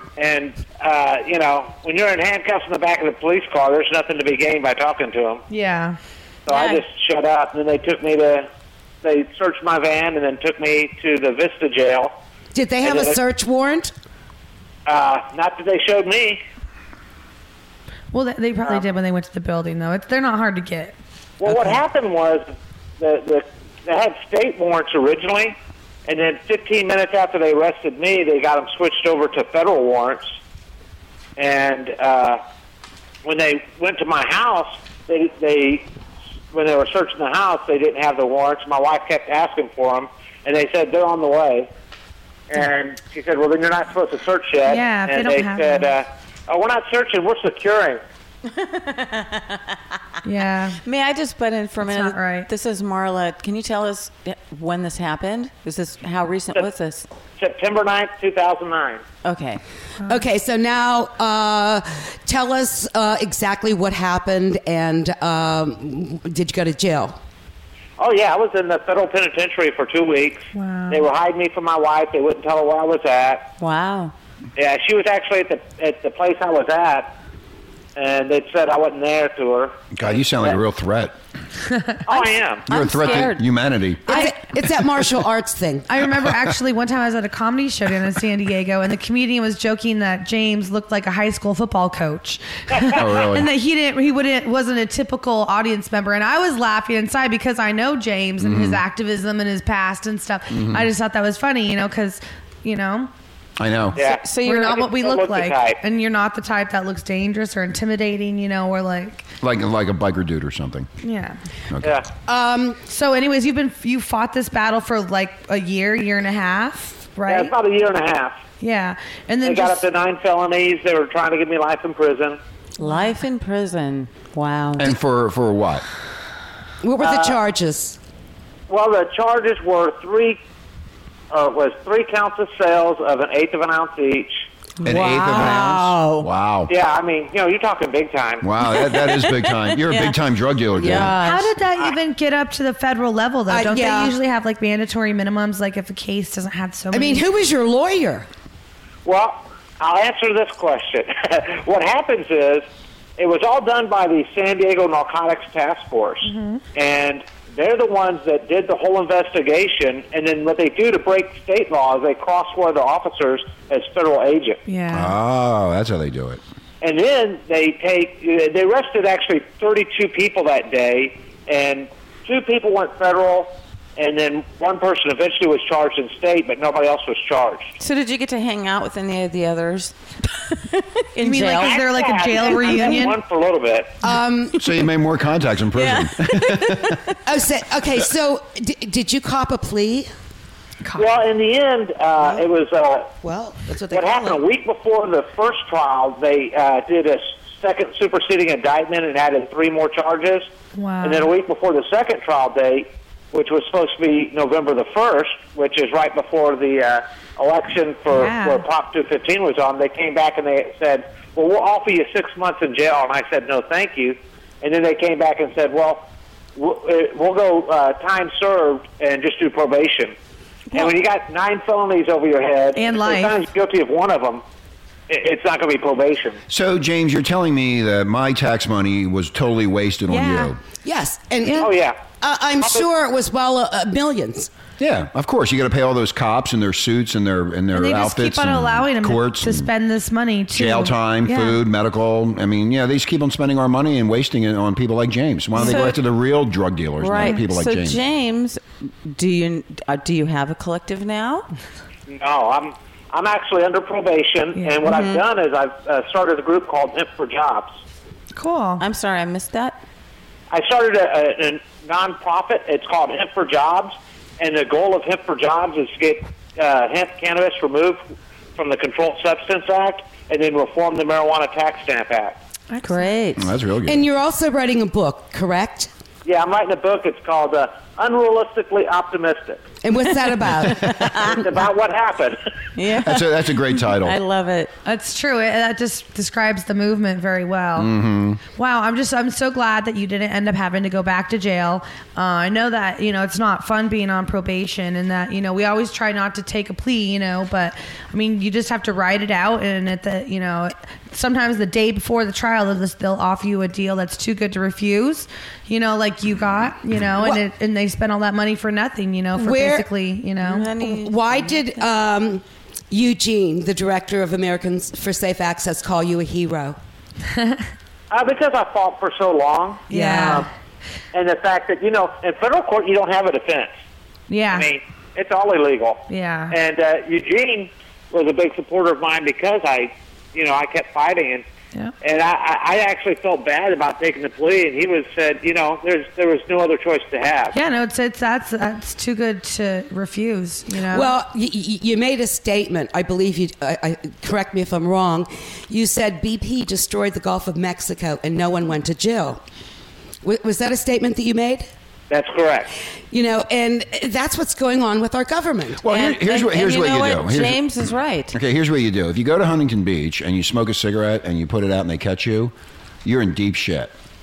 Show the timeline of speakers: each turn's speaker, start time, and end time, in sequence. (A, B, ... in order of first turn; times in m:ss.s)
0:00.2-0:05.4 A
0:05.5-0:06.0 B
0:06.5-0:08.5 A
0:06.5-0:06.8 C
0:09.0-0:12.1 A
0:12.6-0:13.9 D
0:12.8-0:13.2 A
0:14.9-0:16.4 A
0:18.1-0:21.0 B
0:21.4-0:25.6 A
0:26.1-0:30.4 A
0:31.4-0:32.4 A
0:33.2-0:35.8 A
0:36.5-0:41.7 A
0:42.5-0:48.0 A
0:44.6-0:45.9 B
0:48.5-0:49.6 C
0:50.2-0:50.8 B
0:50.8-0:57.1 C
0:51.8-0:52.5 B
0:57.4-0:59.0 A
0:59.2-0:59.6 C
1:00.1-1:07.2 D
1:08.0-1:13.5 A
1:10.5-1:11.0 B
1:13.6-1:14.1 C
1:14.6-1:17.2 A
1:18.0-1:20.6 A
1:19.9-1:21.1 E
1:22.1-1:22.7 A
1:22.7-1:23.4 C
1:22.7-1:24.2 E
1:24.1-1:25.9 D
1:25.9-1:43.1 B
1:32.9-1:33.5 E
1:38.4-1:38.8 E
1:40.5-1:40.9 E
1:43.6-1:44.0 E
1:44.0-1:45.8 A
1:44.0-1:44.8 C
1:44.4-1:49.2 B
1:49.4-1:50.9 E
1:51.0-1:51.4 B
1:51.7-1:52.0 E
1:52.3-1:52.8 D
1:52.9-1:57.5 B
1:57.3-1:58.4 A
1:58.6-1:59.8 B
1:59.4-2:02.4 A
2:02.8-2:05.0 C
2:02.8-2:03.1 B
2:04.8-2:05.8 E
2:06.8-2:08.0 D
2:07.0-2:07.4 A
2:08.7-2:10.4 A
2:11.3-2:14.4 A
2:14.8-2:16.3 C
2:14.8-2:16.7 E
2:14.9-2:15.9 D
2:16.7-2:18.4 A
2:18.4-2:21.2 E
2:18.7-2:20.2 C
2:20.7-2:21.9 C
2:20.8-2:21.1 D
2:21.2-2:27.3 B
2:23.5-2:24.2 D
2:26.9-2:28.3 D
2:29.0-2:32.6 A
2:33.2-2:44.6 A
2:36.2-2:36.6 B
2:44.7-2:45.1 B
2:44.9-2:46.4 E
2:46.8-2:57.8 A
2:57.8-2:59.9 C
3:00.7-3:01.8 C
3:01.2-3:03.2 B
3:01.5-3:03.9 A
3:02.4-3:03.0 C
3:04.0-3:04.6 D
3:04.6-3:07.0 E
3:05.7-3:07.1 C
3:07.3-3:10.1 D
3:11.0-3:13.1 A
3:13.2-3:14.4 D
3:13.9-3:20.5 A
3:20.8-3:21.3 B
3:21.0-3:40.2 A
3:28.1-3:28.6 B
3:40.7-3:44.4 A
3:42.8-3:43.4 B
3:45.1-3:46.4 A
3:46.5-3:50.6 E
3:50.1-3:50.5 B
3:50.8-3:54.5 D
3:51.6-3:52.0 A
3:54.8-3:59.7 E
3:57.7-4:01.6 B
4:00.5-4:08.0 E
4:05.6-4:06.0 C
4:05.6-4:05.8 B
4:07.0-4:11.5 C
4:12.1-4:17.7 A
4:14.6-4:14.9 B
4:14.9-4:15.2 C
4:18.4-4:18.8 B
4:18.8-4:19.8 C
4:20.5-4:28.0 A
4:28.6-4:32.4 A
4:32.7-4:33.2 B
4:32.8-4:33.5 C
4:33.4-4:34.0 E
4:33.8-4:35.9 D
4:36.2-4:39.6 A
4:39.8-4:41.4 D
4:40.9-4:41.4 C
4:41.2-4:42.4 A
4:42.8-4:44.7 C
4:43.0-4:44.2 E
4:44.8-4:47.9 B
4:47.8-4:48.4 E
4:48.6-5:10.7 B
5:09.4-5:09.9 D
5:10.4-5:11.8 C
5:10.6-5:16.8 D
5:17.3-5:17.6 B
5:18.1-5:20.4 A
5:19.9-5:20.5 B
5:19.9-5:20.4 D
5:21.1-5:23.7 A
5:24.3-5:24.7 B
5:24.5-5:31.4 A
5:26.1-5:26.6 B
5:32.0-5:37.6 A
5:37.5-5:41.1 B
5:40.9-5:49.4 D
5:50.2-5:51.7 D
5:52.1-5:52.7 A
5:53.1-5:55.9 D
5:55.8-6:02.5 E
5:55.9-5:58.4 C
6:03.0-6:03.9 E